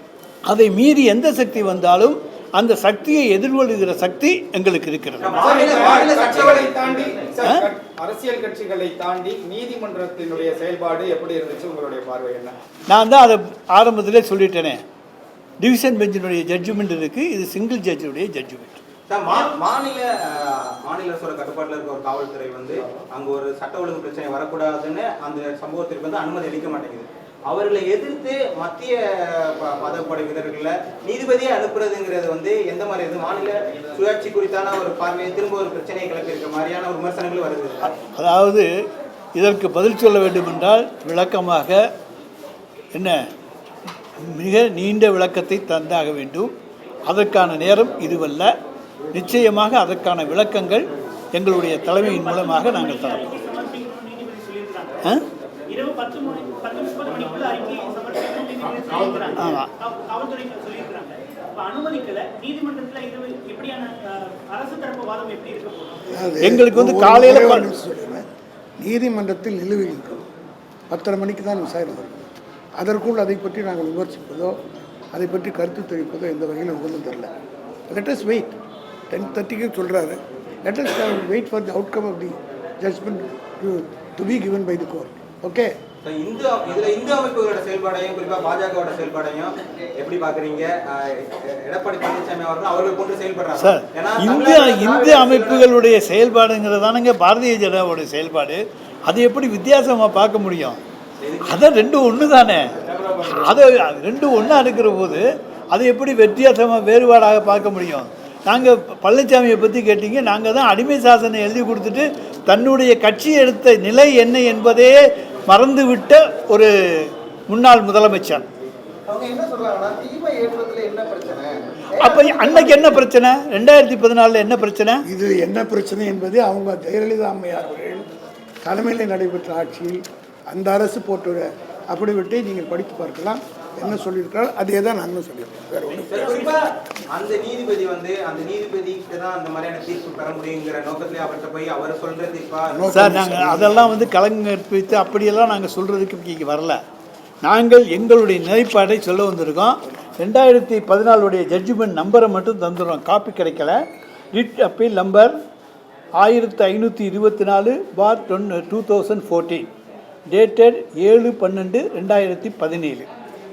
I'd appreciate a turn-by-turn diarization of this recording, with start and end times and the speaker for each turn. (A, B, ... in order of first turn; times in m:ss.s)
0:00.5-0:05.4 A
0:05.2-0:07.0 B
0:05.3-0:12.6 C
0:07.4-0:07.7 A
0:12.9-0:14.8 A
0:15.6-0:18.8 A
0:19.1-0:38.0 B
0:38.1-0:38.7 A
0:39.4-0:41.8 A
0:42.9-0:43.2 A
0:44.2-0:46.5 A
0:47.1-0:48.5 A
0:49.1-0:53.3 A
0:52.0-0:55.0 D
0:55.7-1:06.0 D
0:59.4-0:59.7 A
1:06.1-1:08.3 E
1:06.4-1:07.7 A
1:08.8-1:10.2 E
1:10.9-1:12.2 E
1:12.8-1:14.6 E
1:15.1-1:17.3 E
1:17.9-1:18.6 E
1:19.1-1:25.7 E
1:26.0-1:35.7 B
1:33.6-1:40.8 A
1:41.2-1:41.7 B
1:41.4-1:42.7 A
1:43.3-1:58.5 A
1:59.1-2:03.1 F
2:02.0-2:05.0 A
2:05.1-2:08.0 E
2:08.6-2:16.4 E
2:16.1-2:23.0 B
2:22.7-2:23.9 E
2:22.9-2:26.8 A
2:27.4-2:33.8 A
2:34.3-2:35.4 A
2:36.2-2:39.7 A
2:40.3-2:43.1 A